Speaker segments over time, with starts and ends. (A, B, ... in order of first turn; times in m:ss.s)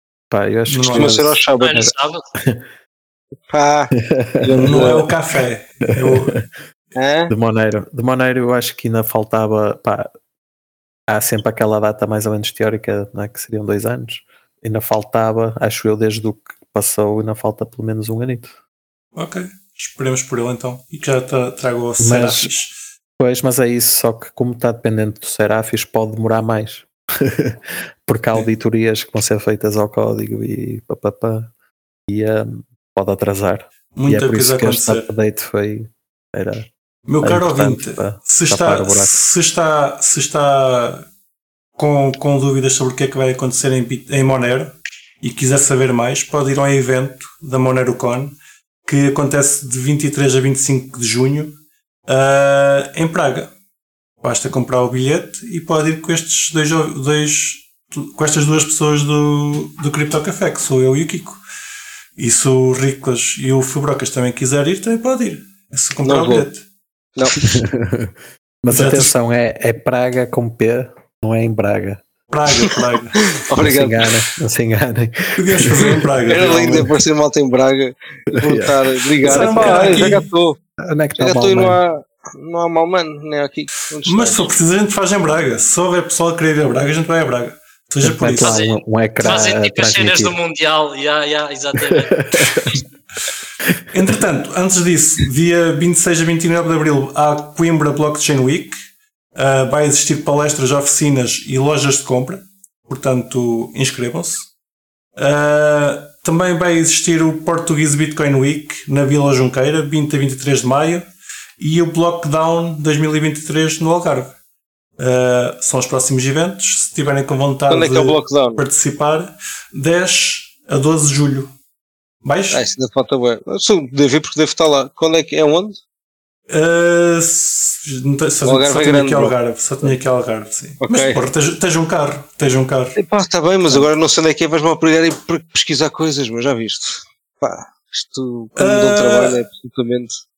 0:00.3-0:02.6 A
0:00.7-0:01.2 B
0:00.9-0:01.9 C
0:01.6-0:02.3 D
0:03.5-0:05.1 C
0:04.0-0:05.0 A
0:04.6-0:06.4 B
0:06.0-0:06.4 A
0:07.0-0:07.3 C
0:07.3-0:10.1 A
0:11.1-0:18.5 A
0:19.2-0:22.7 B
0:22.0-0:22.5 A
0:23.2-0:31.5 A
0:32.1-0:36.7 A
0:34.0-0:35.1 B
0:37.1-0:41.0 B
0:37.2-0:39.2 A
0:41.8-0:51.6 B
0:52.1-0:53.5 B
0:54.2-1:01.4 B
1:02.2-1:06.6 B
1:06.0-1:06.5 C
1:07.4-1:12.0 A
1:08.7-1:09.1 B
1:12.3-1:13.2 B
1:13.3-1:14.2 C
1:13.6-1:17.0 A
1:15.4-1:16.9 B
1:16.3-1:20.6 C
1:18.3-1:20.1 A
1:19.2-1:20.3 B
1:20.8-1:21.8 A
1:21.2-1:24.5 C
1:24.0-1:28.6 B
1:28.0-1:30.4 A
1:28.4-1:32.5 D
1:31.9-1:32.8 A
1:33.9-1:38.8 B
1:39.4-1:44.5 B
1:45.2-1:51.1 B
1:51.6-1:54.3 B
1:55.0-2:01.5 B
1:57.7-1:58.6 C
2:02.2-2:02.6 B
2:02.5-2:05.8 C
2:06.5-2:13.0 B
2:08.4-2:10.0 C
2:10.8-2:11.2 C
2:13.0-2:20.2 C
2:18.6-2:19.4 B